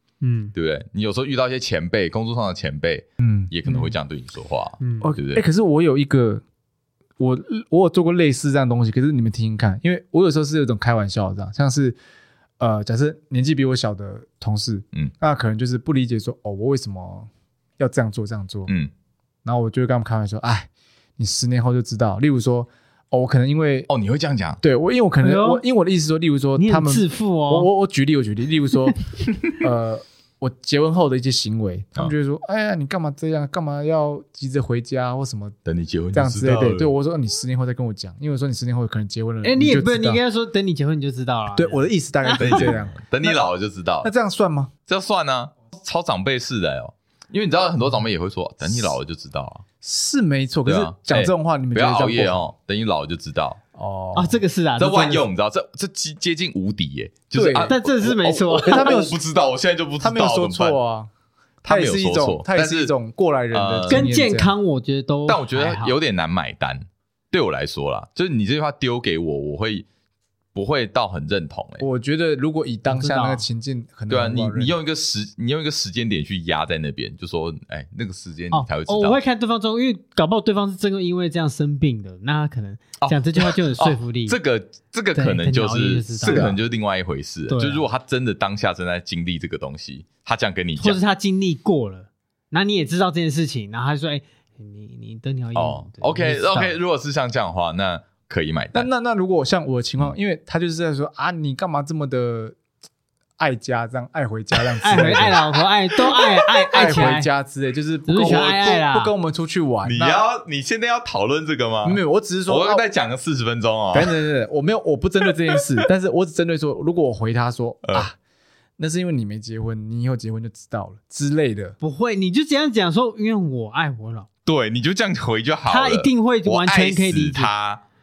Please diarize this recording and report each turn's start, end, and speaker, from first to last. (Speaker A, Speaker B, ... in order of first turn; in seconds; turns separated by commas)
Speaker A: 0.2-0.5, Speaker B: 0.5-5.4, Speaker C: 3.2-3.9, Speaker A: 4.8-5.1, Speaker C: 5.0-6.4, Speaker C: 7.2-12.0, Speaker C: 12.6-18.7, Speaker C: 19.4-23.9, Speaker B: 23.9-24.6, Speaker C: 24.6-35.5, Speaker A: 25.2-25.6, Speaker A: 26.6-27.7, Speaker B: 35.6-36.9, Speaker C: 36.1-40.2, Speaker A: 39.4-42.7, Speaker C: 41.5-43.4, Speaker B: 42.4-44.1, Speaker C: 44.0-44.7, Speaker B: 44.9-49.6, Speaker C: 49.8-52.5, Speaker B: 50.7-53.6, Speaker C: 53.8-54.4, Speaker A: 54.1-55.2, Speaker B: 54.8-60.8, Speaker C: 57.3-57.7, Speaker A: 57.7-59.0, Speaker C: 58.6-59.2, Speaker C: 60.0-61.1, Speaker B: 61.6-62.9, Speaker C: 61.6-64.5, Speaker B: 63.5-64.1, Speaker A: 63.9-66.0, Speaker B: 65.3-69.9, Speaker B: 70.5-71.9, Speaker C: 71.8-74.8, Speaker A: 72.9-73.5, Speaker B: 74.1-79.2, Speaker A: 78.5-84.4, Speaker B: 83.0-91.0, Speaker A: 85.2-86.5, Speaker C: 86.2-86.6, Speaker A: 87.5-87.8, Speaker A: 90.8-96.8, Speaker B: 95.5-98.9, Speaker C: 98.7-102.6, Speaker C: 103.4-105.4, Speaker A: 104.8-107.3, Speaker B: 104.9-105.4, Speaker C: 106.7-110.2, Speaker A: 108.1-109.1, Speaker B: 109.8-114.2, Speaker C: 111.8-112.8, Speaker C: 113.9-118.2, Speaker C: 118.8-121.8, Speaker A: 121.8-124.3, Speaker B: 124.5-127.8, Speaker A: 125.7-127.5